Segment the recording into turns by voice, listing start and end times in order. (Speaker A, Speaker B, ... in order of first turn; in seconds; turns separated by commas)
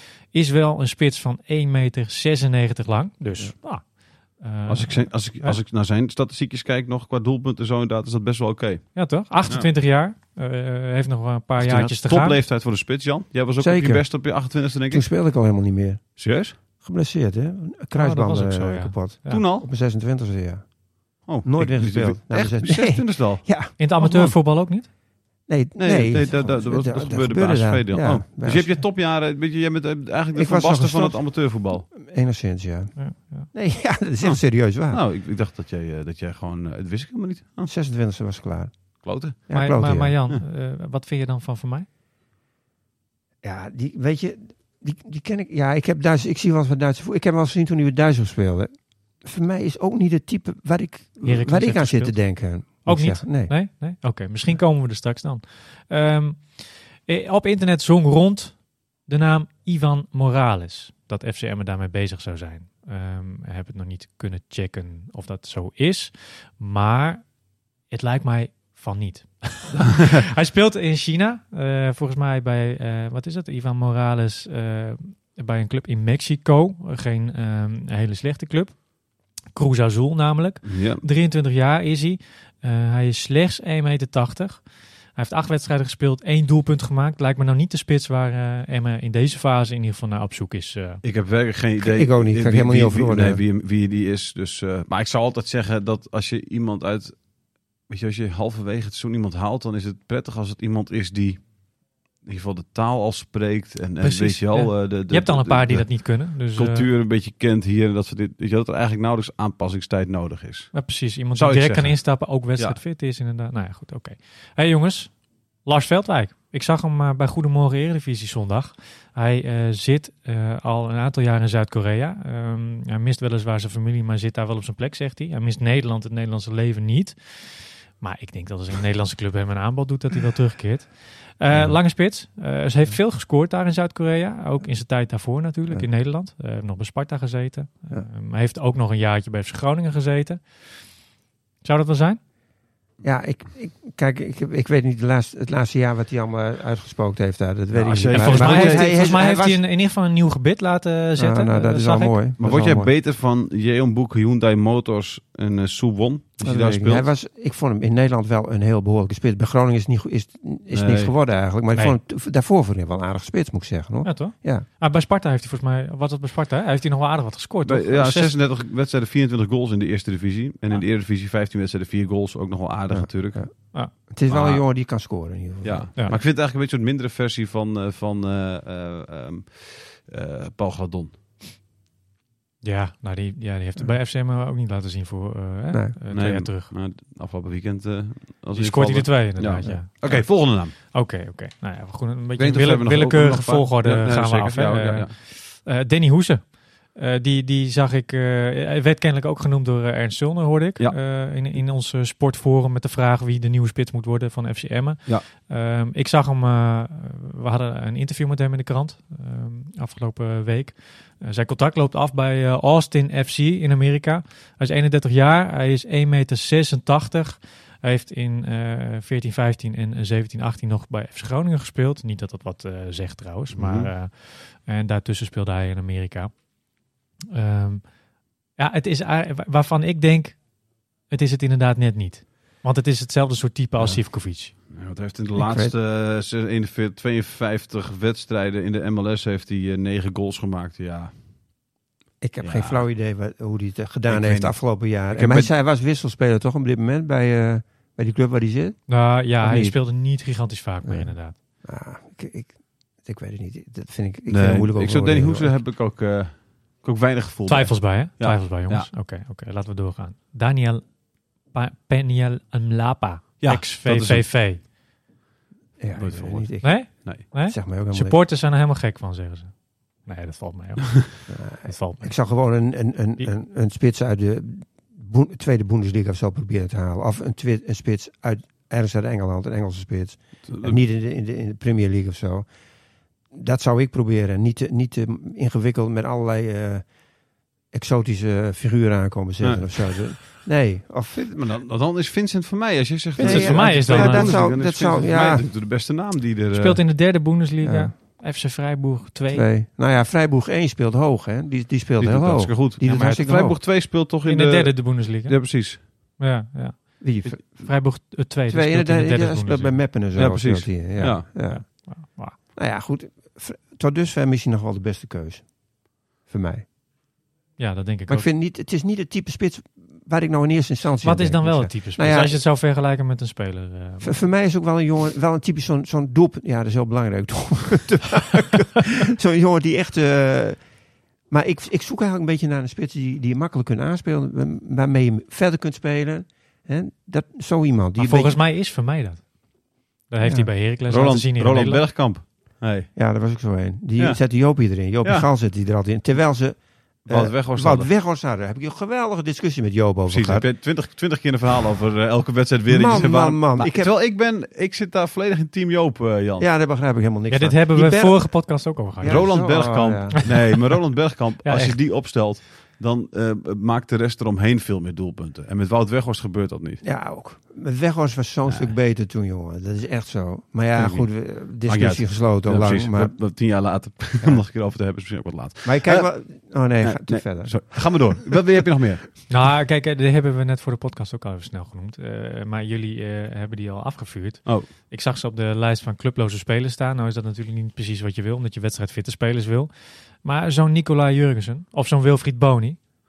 Speaker A: 0.3-5.6, Speaker B: 4.7-9.7, Speaker A: 8.9-12.4, Speaker B: 11.6-15.1, Speaker C: 13.6-16.2, Speaker B: 16.2-16.5, Speaker C: 16.8-20.7, Speaker A: 17.9-19.4, Speaker B: 19.3-19.6, Speaker B: 21.3-23.4, Speaker C: 21.4-23.7, Speaker A: 23.8-24.9, Speaker B: 24.0-24.3, Speaker C: 25.5-28.8, Speaker B: 25.8-31.9, Speaker C: 30.3-32.9, Speaker A: 33.0-33.5, Speaker C: 33.5-35.0, Speaker B: 34.9-37.7, Speaker C: 37.6-40.1, Speaker B: 39.0-39.4, Speaker A: 39.5-41.9, Speaker C: 43.4-53.5, Speaker A: 51.2-67.2, Speaker A: 67.9-78.8, Speaker A: 79.5-84.6, Speaker B: 80.6-81.0, Speaker A: 85.1-91.0, Speaker B: 91.0-97.2, Speaker C: 91.8-93.4, Speaker B: 97.9-101.4, Speaker B: 102.2-110.7, Speaker A: 104.0-106.9, Speaker A: 110.7-115.1, Speaker B: 111.3-112.8, Speaker A: 115.6-140.4, Speaker A: 141.6-142.2, Speaker C: 143.0-149.6, Speaker B: 147.7-149.0, Speaker A: 148.1-152.2, Speaker C: 151.2-152.9, Speaker B: 152.4-157.1, Speaker C: 156.4-164.7, Speaker B: 160.7-161.1, Speaker A: 164.0-168.3, Speaker B: 167.6-173.7, Speaker C: 172.9-176.2, Speaker B: 174.3-174.6, Speaker B: 175.6-181.2, Speaker A: 182.6-186.7, Speaker B: 186.1-190.7, Speaker A: 188.5-226.3, Speaker B: 192.4-195.1, Speaker B: 223.5-223.9, Speaker A: 227.3-227.9, Speaker A: 228.6-230.4, Speaker A: 231.1-234.5, Speaker B: 234.7-241.1, Speaker C: 235.3-235.7, Speaker C: 242.2-248.8, Speaker B: 242.4-242.8, Speaker B: 244.1-245.5, Speaker A: 248.9-251.3, Speaker C: 249.4-249.8, Speaker C: 250.8-255.5, Speaker B: 254.3-258.9, Speaker A: 257.5-260.9, Speaker A: 261.5-264.6, Speaker B: 263.4-264.2, Speaker C: 265.8-268.2, Speaker B: 265.9-267.2, Speaker A: 266.6-272.1, Speaker C: 271.3-282.5, Speaker B: 280.5-280.8, Speaker C: 283.3-286.9, Speaker C: 287.7-291.4, Speaker B: 289.4-290.2, Speaker B: 291.3-296.8, Speaker A: 293.2-294.4, Speaker C: 293.2-295.5, Speaker A: 296.5-299.5, Speaker C: 297.6-297.9, Speaker C: 299.3-303.6, Speaker B: 302.0-305.8, Speaker A: 302.9-303.2, Speaker A: 304.2-309.8, Speaker C: 307.0-307.7, Speaker C: 308.5-315.6, Speaker B: 310.1-311.2, Speaker A: 311.4-312.4, Speaker C: 316.2-316.6, Speaker A: 317.6-318.3, Speaker C: 318.1-322.4, Speaker A: 321.0-324.2, Speaker C: 324.0-330.6, Speaker C: 331.3-338.4, Speaker A: 338.0-339.3, Speaker A: 340.1-341.8, Speaker C: 340.2-340.5, Speaker B: 340.8-342.9, Speaker C: 342.9-350.5, Speaker B: 347.1-347.9, Speaker B: 350.1-356.5, Speaker C: 352.7-353.9, Speaker C: 356.4-360.2, Speaker A: 357.3-359.3, Speaker B: 359.0-366.8, Speaker A: 360.1-360.4, Speaker A: 361.4-361.8, Speaker C: 366.8-373.1, Speaker B: 368.5-368.7, Speaker B: 370.8-376.1, Speaker C: 375.6-378.3, Speaker B: 376.8-379.2, Speaker A: 379.3-389.7, Speaker A: 390.2-392.8